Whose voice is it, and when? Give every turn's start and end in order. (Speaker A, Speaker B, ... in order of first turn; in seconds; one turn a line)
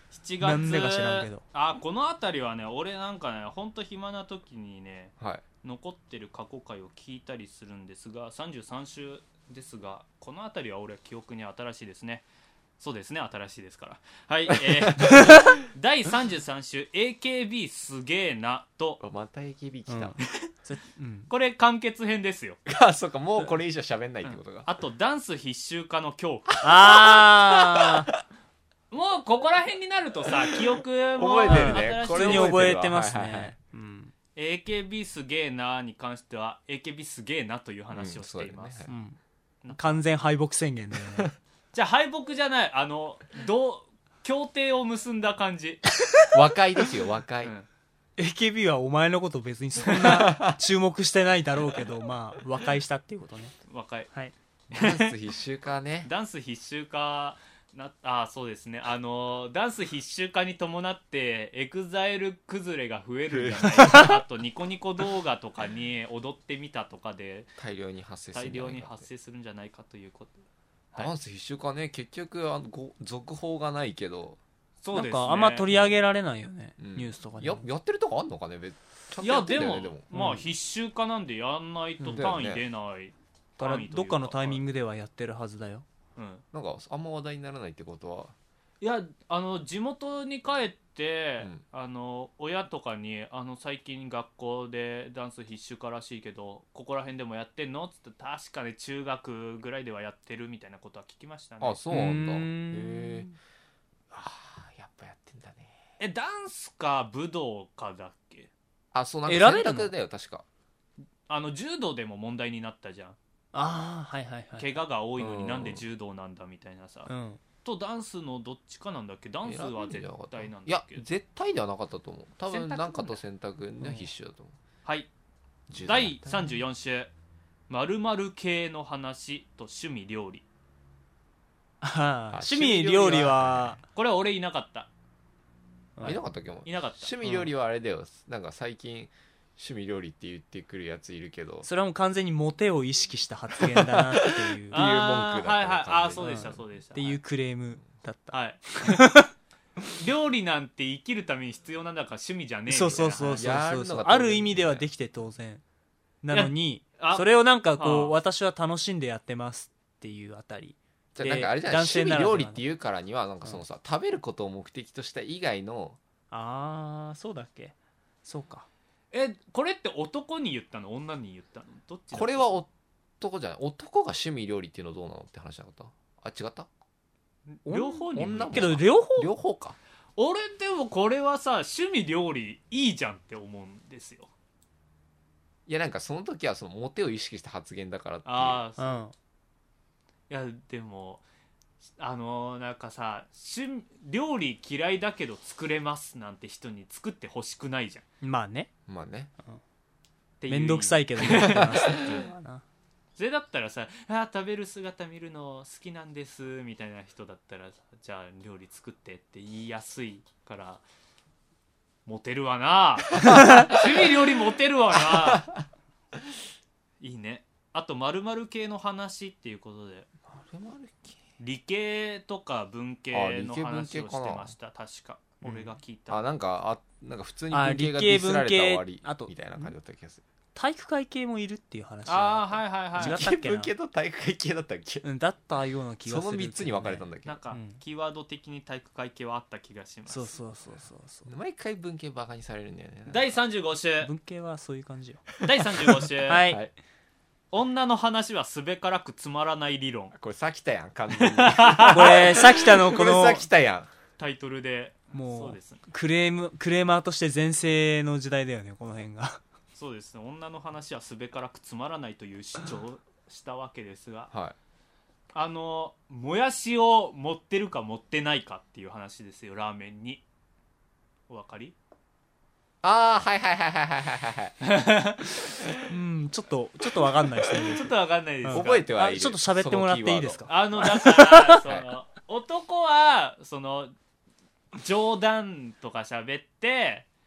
Speaker A: 0.1-12.2
Speaker B: 0.4-1.4
Speaker C: 5.2-5.4
Speaker A: 12.8-19.0
Speaker C: 14.5-15.5
Speaker C: 19.0-20.2
Speaker B: 19.9-21.3
Speaker A: 21.3-22.6
Speaker C: 22.6-24.7
Speaker A: 24.2-26.5
Speaker C: 26.5-28.2
Speaker B: 26.6-28.1
Speaker A: 28.9-32.7
Speaker C: 31.2-33.5
Speaker B: 31.5-34.1
Speaker A: 34.3-38.9
Speaker C: 37.9-38.9
Speaker B: 38.9-39.2
Speaker A: 39.6-39.9
Speaker B: 39.7-41.3
Speaker A: 41.7-45.8
Speaker C: 46.3-47.5
Speaker B: 48.2-53.5
Speaker C: 49.9-50.6
Speaker A: 53.6-54.1
Speaker C: 54.7-56.1
Speaker A: 54.7-55.1
Speaker A: 56.0-67.5
Speaker C: 63.3-64.1
Speaker B: 63.8-64.2
Speaker C: 67.6-69.1
Speaker A: 68.3-71.1
Speaker C: 71.0-74.4
Speaker A: 74.8-75.7
Speaker B: 74.9-77.6
Speaker C: 75.7-76.0
Speaker C: 76.8-80.1
Speaker A: 79.2-84.6
Speaker B: 80.1-80.4
Speaker B: 82.0-82.2
Speaker C: 82.1-82.6
Speaker B: 83.6-85.8
Speaker A: 86.2-86.4
Speaker C: 86.5-88.3
Speaker A: 88.8-101.8
Speaker C: 101.6-103.3
Speaker B: 101.9-103.3
Speaker C: 104.1-105.8
Speaker A: 106.0-108.5
Speaker C: 108.9-110.5
Speaker B: 109.2-109.9
Speaker A: 111.3-113.2
Speaker B: 113.5-114.8
Speaker A: 114.6-117.1
Speaker C: 115.2-115.8
Speaker B: 117.1-117.4
Speaker A: 117.6-121.0
Speaker C: 119.4-124.5
Speaker A: 122.5-123.2
Speaker B: 123.8-124.1
Speaker A: 124.8-125.1
Speaker C: 125.7-126.6
Speaker A: 125.8-127.1
Speaker A: 127.7-130.4
Speaker B: 131.8-133.8
Speaker C: 132.3-133.8
Speaker A: 133.9-134.9
Speaker C: 136.0-141.7
Speaker A: 136.7-137.1
Speaker B: 137.2-137.5
Speaker B: 141.6-144.8
Speaker C: 143.6-146.6
Speaker A: 144.7-147.2
Speaker B: 146.2-149.3
Speaker A: 148.3-149.1
Speaker A: 150.0-153.5
Speaker B: 152.7-155.6
Speaker C: 153.3-154.8
Speaker B: 156.2-162.6
Speaker A: 156.3-158.2
Speaker C: 161.1-166.0
Speaker B: 166.3-167.7
Speaker B: 168.2-168.7
Speaker A: 169.1-172.6
Speaker C: 172.1-172.7
Speaker C: 173.2-176.7
Speaker A: 177.5-178.7
Speaker B: 177.7-179.3
Speaker C: 177.8-179.8
Speaker A: 180.2-184.3
Speaker C: 185.7-188.6
Speaker A: 188.2-189.0
Speaker B: 188.8-189.1
Speaker A: 190.3-191.2
Speaker A: 192.0-198.0
Speaker B: 198.2-198.7
Speaker C: 198.9-199.3
Speaker A: 200.4-202.2
Speaker B: 200.5-202.6
Speaker C: 201.3-201.7
Speaker A: 203.2-210.8
Speaker A: 212.1-215.5
Speaker C: 213.2-214.1
Speaker C: 214.9-215.6
Speaker A: 217.0-220.1
Speaker C: 220.3-221.2
Speaker A: 221.4-226.2
Speaker C: 223.1-224.5
Speaker B: 225.4-225.7
Speaker C: 226.1-230.2
Speaker B: 227.5-229.7
Speaker B: 230.5-233.7
Speaker A: 232.1-233.2
Speaker C: 233.0-235.0
Speaker B: 235.0-237.8
Speaker C: 236.0-237.4
Speaker A: 237.2-240.3
Speaker B: 240.1-241.3
Speaker C: 241.2-243.3
Speaker A: 243.1-244.1
Speaker B: 244.0-245.4
Speaker A: 245.4-246.5
Speaker B: 246.2-246.6
Speaker C: 246.4-246.7
Speaker A: 247.5-250.1
Speaker C: 250.1-253.9
Speaker A: 251.2-252.2
Speaker B: 251.8-253.4
Speaker A: 254.2-255.8
Speaker B: 255.1-259.4
Speaker A: 259.7-264.3
Speaker C: 264.3-264.6
Speaker A: 265.3-270.2
Speaker A: 271.3-271.8
Speaker C: 272.8-274.6
Speaker A: 274.6-275.3
Speaker B: 275.9-281.6
Speaker C: 277.5-277.7
Speaker A: 277.7-278.9
Speaker C: 278.5-280.5
Speaker A: 280.5-283.9
Speaker A: 284.8-287.1